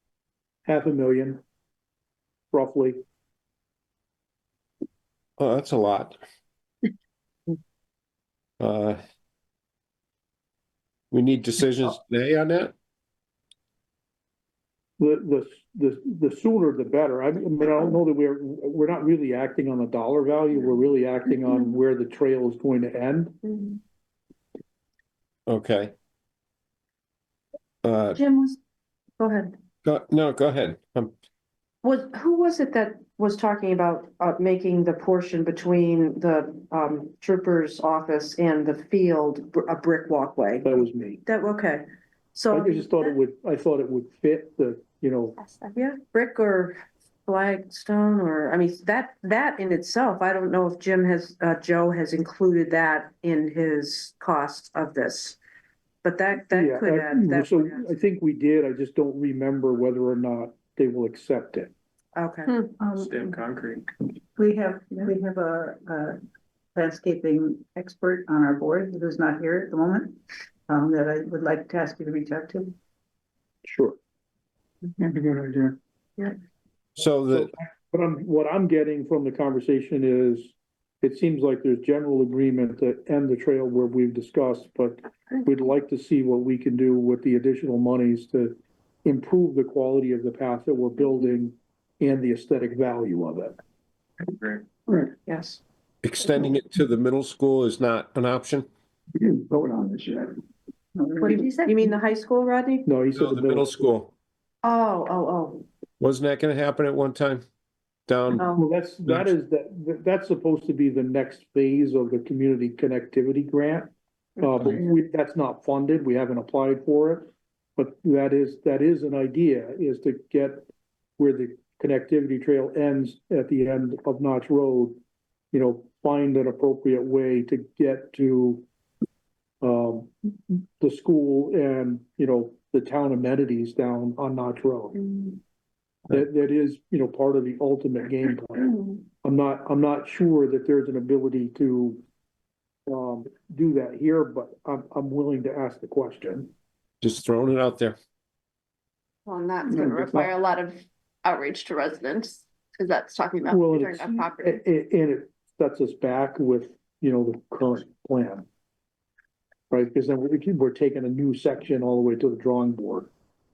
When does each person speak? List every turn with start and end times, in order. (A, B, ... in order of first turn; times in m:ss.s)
0:00.7-0:01.4 A
0:02.5-0:03.0 A
0:05.4-0:06.2 B
0:08.6-0:09.0 B
0:11.1-0:12.7 B
0:15.0-0:23.4 A
0:25.5-0:25.9 B
0:27.8-0:28.2 B
0:28.2-0:28.6 C
0:29.2-0:29.5 C
0:29.8-0:31.1 B
0:31.8-0:41.8 C
0:40.6-0:41.2 A
0:42.3-0:43.1 C
0:42.5-0:45.4 A
0:45.4-0:45.7 D
0:45.8-0:55.4 C
0:56.0-0:57.8 C
0:56.5-1:01.7 A
1:02.2-1:02.6 C
1:02.8-1:03.3 E
1:04.4-1:06.2 E
1:06.8-1:12.7 E
1:13.6-1:14.0 A
1:15.0-1:15.8 F
1:17.0-1:17.5 B
1:17.3-1:33.6 A
1:34.4-1:35.1 F
1:35.3-1:35.6 C
1:36.0-1:38.7 B
1:39.2-1:40.4 F
1:41.0-1:41.5 E
1:41.2-1:41.8 D
1:41.2-1:42.9 C
1:42.8-1:43.7 A
1:43.2-1:44.1 B
1:44.6-1:45.6 C
1:46.0-1:47.4 B
1:48.1-1:48.5 B
1:48.4-1:48.6 C
1:48.5-2:00.7 A
2:01.2-2:05.0 A
2:05.5-2:08.6 A
2:09.6-2:15.0 A
2:16.1-2:22.0 A
2:22.9-2:26.5 A
2:27.0-2:28.0 B
2:29.3-2:34.6 D
2:33.5-2:38.5 A
2:39.7-2:43.1 A